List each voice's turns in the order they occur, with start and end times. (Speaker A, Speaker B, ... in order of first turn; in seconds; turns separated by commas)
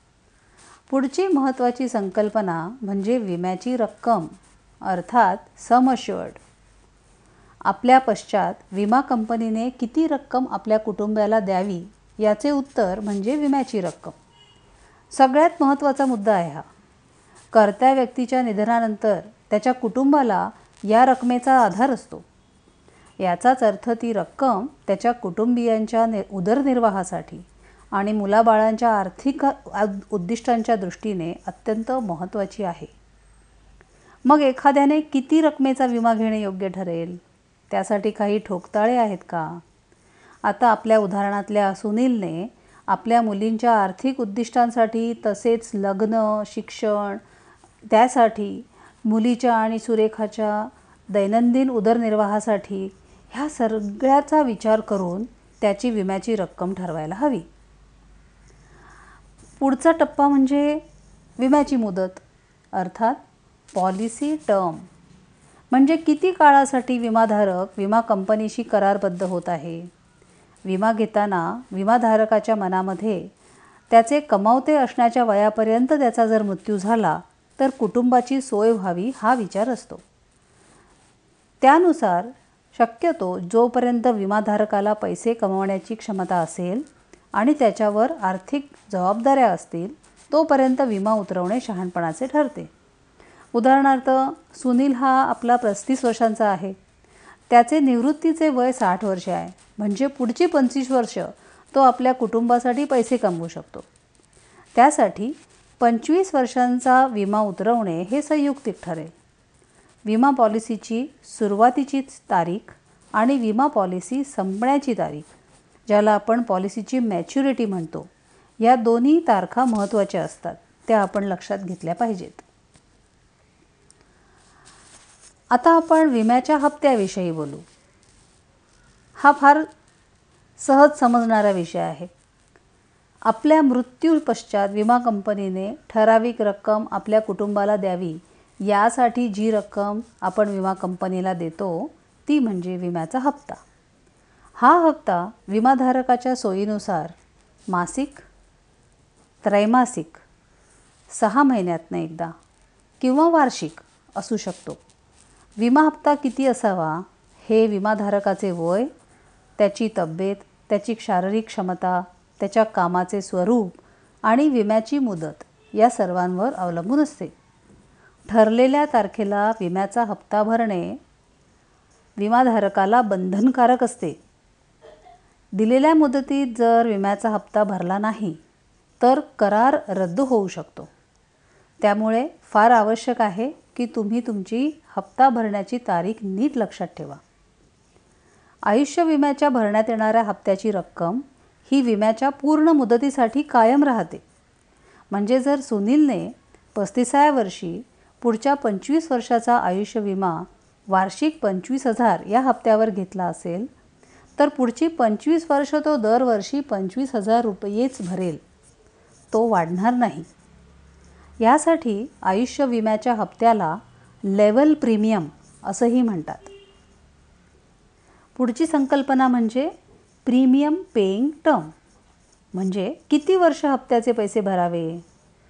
Speaker A: 0.9-6.4, Speaker A: 7.6-14.2, Speaker A: 15.1-16.7, Speaker A: 17.5-22.2, Speaker A: 23.2-32.9, Speaker A: 34.2-39.6, Speaker A: 40.4-47.2, Speaker A: 47.9-57.5, Speaker A: 59.6-60.8, Speaker A: 61.4-63.2, Speaker A: 63.7-64.9, Speaker A: 65.7-69.9, Speaker A: 70.6-73.3, Speaker A: 73.9-80.0, Speaker A: 81.6-92.7, Speaker A: 93.5-96.8, Speaker A: 97.5-103.9, Speaker A: 104.7-109.1, Speaker A: 110.0-115.3, Speaker A: 115.9-118.1, Speaker A: 118.6-122.5, Speaker A: 125.5-127.6, Speaker A: 129.2-129.7, Speaker A: 130.6-132.1, Speaker A: 133.2-143.6, Speaker A: 144.6-147.2, Speaker A: 147.7-148.3, Speaker A: 149.4-150.2, Speaker A: 151.1-152.3, Speaker A: 153.0-154.8, Speaker A: 155.6-158.9, Speaker A: 159.6-167.3, Speaker A: 168.3-171.0, Speaker A: 172.2-174.2, Speaker A: 175.5-178.4, Speaker A: 179.0-180.9, Speaker A: 181.8-187.2, Speaker A: 188.7-194.2, Speaker A: 195.1-203.7, Speaker A: 204.4-208.4, Speaker A: 209.3-210.3, Speaker A: 211.4-216.5, Speaker A: 218.3-219.7, Speaker A: 220.2-221.7, Speaker A: 222.5-225.0